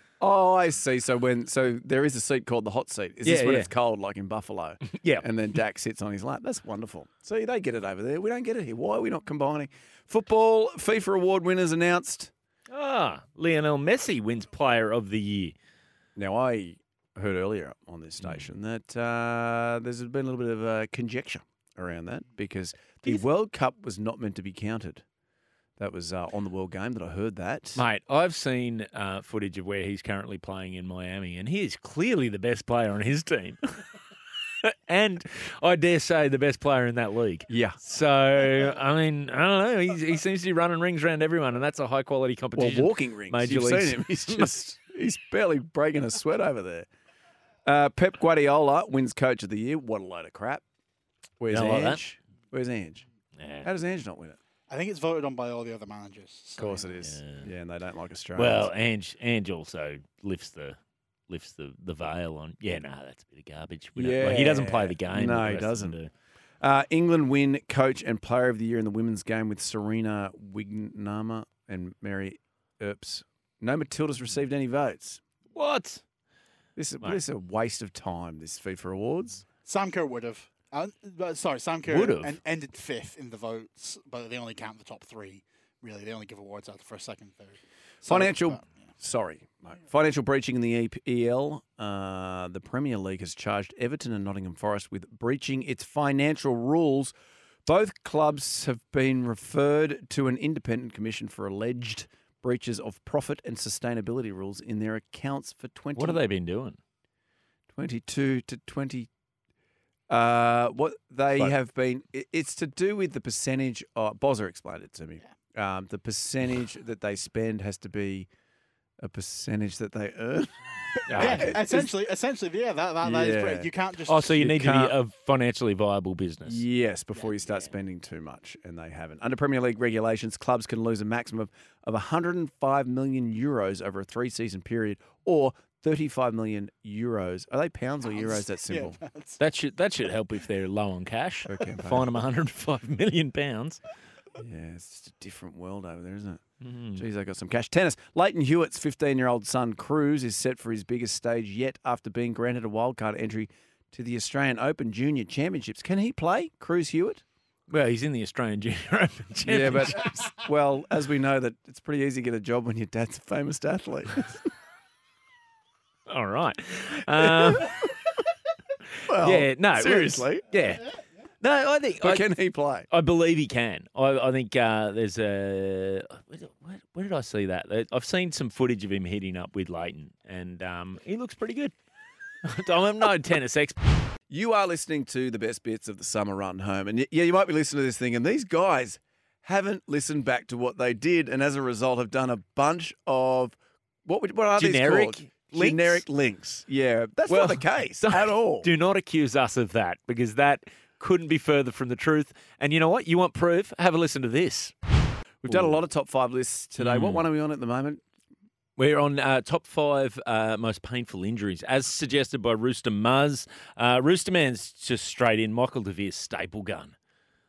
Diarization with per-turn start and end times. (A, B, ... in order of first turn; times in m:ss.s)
0:00.2-0:12.3 A
0:03.2-0:03.7 B
0:04.8-0:05.3 B
0:12.7-0:15.6 B
0:16.2-0:25.0 A
0:25.8-0:27.8 A
0:27.8-0:33.6 B
0:34.6-0:44.5 B
0:37.5-0:37.8 A
0:42.6-0:46.9 A
0:47.6-0:50.6 A
0:51.4-0:53.0 A
0:51.5-0:52.0 B
0:53.4-0:53.7 B
0:53.6-0:54.4 A
0:54.7-0:56.9 C
0:56.6-0:58.7 A
0:57.0-0:57.5 B
0:58.4-1:00.8 B
1:01.3-1:06.1 B
1:04.0-1:06.0 A
1:06.6-1:15.2 A
1:15.6-1:16.0 B
1:16.8-1:19.4 A
1:19.7-1:28.7 C
1:21.9-1:22.4 B
1:28.1-1:37.1 A
1:37.7-1:46.2 A
1:46.0-1:46.8 B
1:47.7-1:49.1 A
1:50.1-1:58.3 A
1:59.0-2:00.6 A
2:01.1-2:01.5 B
2:01.1-2:01.9 A
2:01.1-2:04.4 C
2:03.0-2:03.7 A
2:04.1-2:06.6 B
2:04.3-2:05.0 A
2:06.5-2:19.0 A
2:18.1-2:19.4 C
2:19.4-2:23.8 B
2:21.5-2:22.2 A
2:24.4-2:26.4 A
2:26.6-2:27.0 B
2:27.0-2:37.2 A
2:37.7-2:40.1 B
2:39.4-2:44.5 A
2:46.1-2:47.9 B
2:47.2-2:47.7 A
2:49.0-2:50.9 B
2:49.1-2:50.5 A
2:51.4-2:52.3 B
2:52.0-2:52.9 A
2:52.9-3:01.8 B
3:02.4-3:03.9 B
3:04.3-3:18.7 A
3:14.6-3:16.0 B
3:17.3-3:24.8 B
3:25.4-3:28.0 A
3:25.5-3:25.8 B
3:26.8-3:27.2 B
3:28.8-3:37.0 B